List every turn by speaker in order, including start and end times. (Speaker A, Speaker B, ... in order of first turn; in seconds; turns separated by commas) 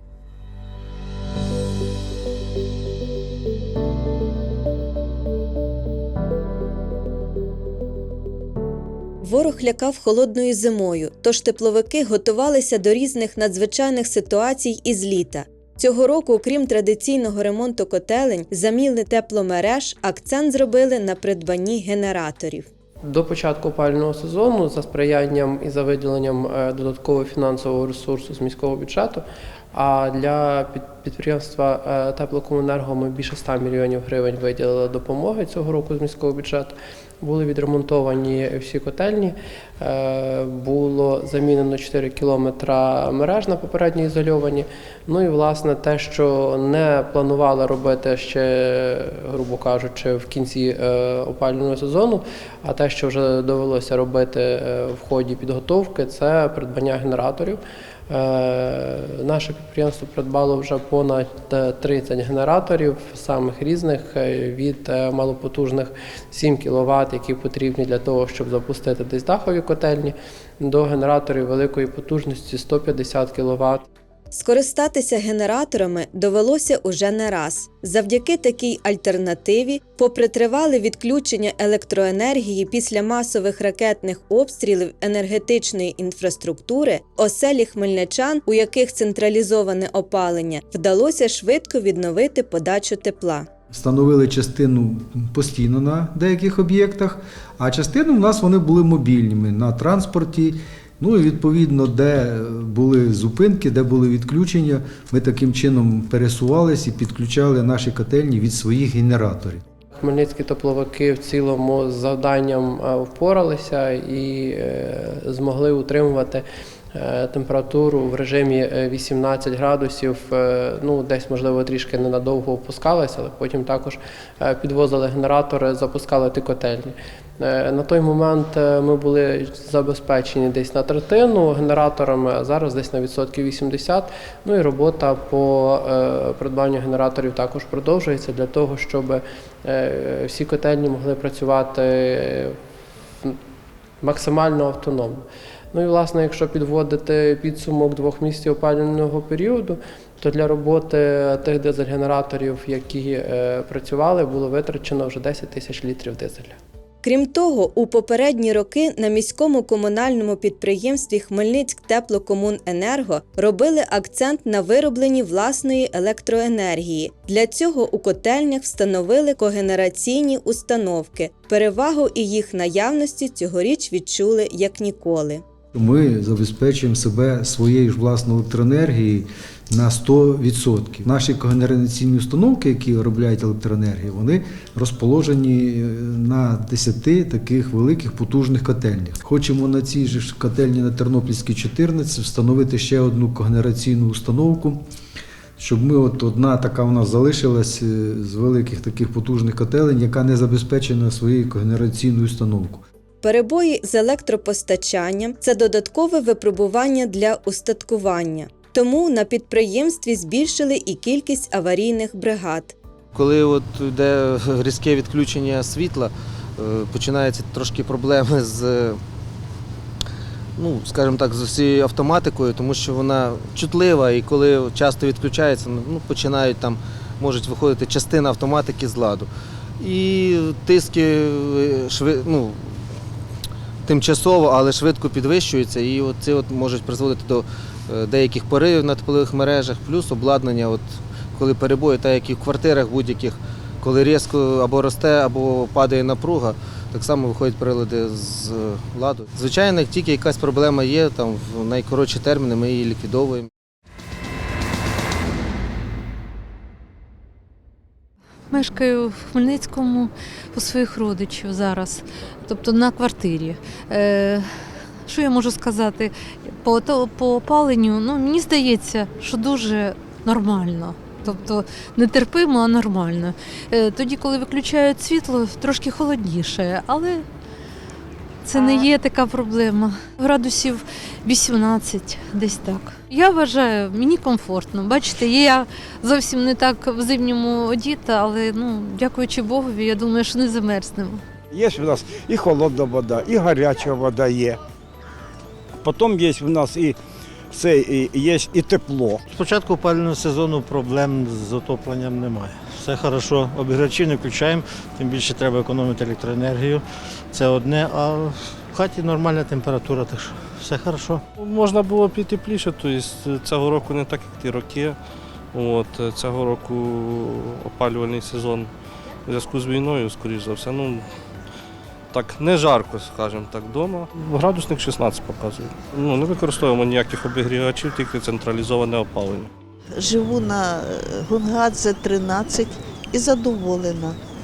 Speaker A: 9.2-22.7, Speaker B: 23.0-73.9, Speaker A: 74.3-93.5, Speaker C: 93.7-109.6, Speaker B: 109.9-116.4, Speaker B: 116.9-142.6, Speaker B: 144.0-156.5, Speaker A: 157.0-175.4, Speaker C: 175.7-194.8, Speaker C: 195.6-202.8, Speaker A: 203.2-212.7, Speaker D: 213.1-219.0, Speaker D: 220.6-229.3, Speaker D: 229.8-232.8, Speaker D: 233.8-253.5, Speaker E: 258.5-264.5, Speaker E: 265.1-277.2, Speaker E: 278.4-291.2, Speaker F: 291.5-294.6, Speaker F: 295.8-296.9, Speaker F: 297.5-299.2, Speaker G: 299.3-311.2, Speaker H: 311.4-315.0, Speaker H: 315.5-318.7, Speaker H: 319.2-321.1, Speaker H: 322.1-329.5, Speaker I: 330.0-334.1